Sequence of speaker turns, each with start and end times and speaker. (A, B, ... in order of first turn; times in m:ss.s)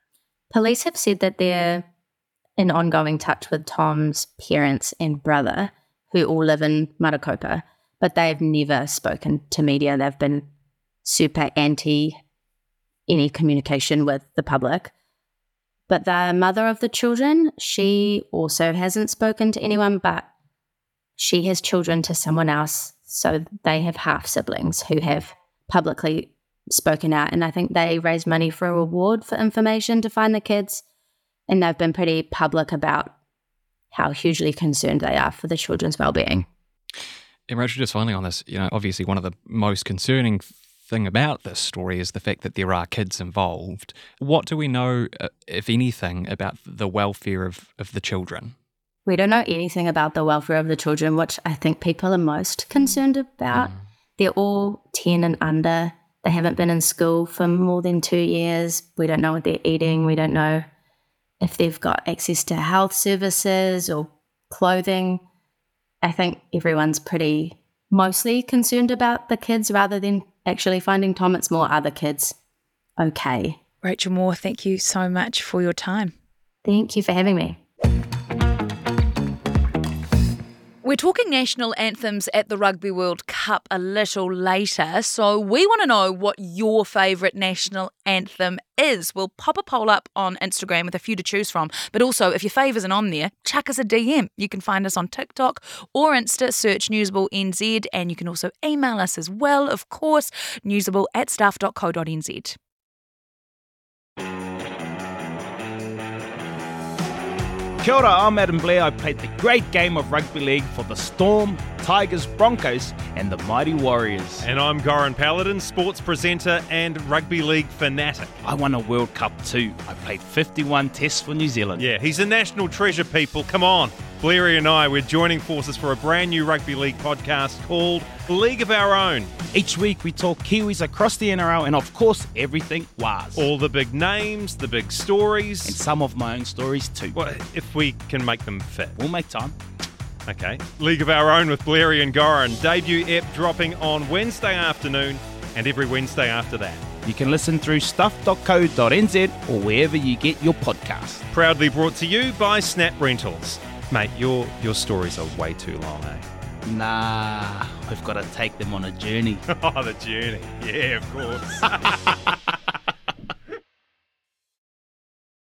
0:00.5-0:01.8 A
0:02.6-0:10.5 A
0:11.0-0:12.2 A
0:13.1-0:14.9 A
0:15.9-0:20.3 A
0:21.2-0:30.8 A
0:31.5-0:33.1 A
0:33.9-0:36.4 A
0:37.5-0:48.5 B
0:49.0-1:00.6 A
1:01.4-1:05.2 A
1:06.0-1:12.3 A
1:13.0-1:13.6 A
1:13.8-1:16.1 C
1:16.6-1:17.6 A
1:20.8-1:42.6 C
1:47.8-1:54.4 D
1:54.4-1:58.3 E
1:58.4-2:01.8 D
2:01.8-2:09.3 E
2:09.5-2:13.4 D
2:13.3-2:15.8 E
2:15.6-2:17.2 D
2:17.1-2:19.0 E
2:19.0-2:19.6 D
2:20.3-2:26.8 E
2:27.0-2:31.2 D
2:31.3-2:36.2 E
2:36.7-2:39.4 D
2:39.5-2:42.0 E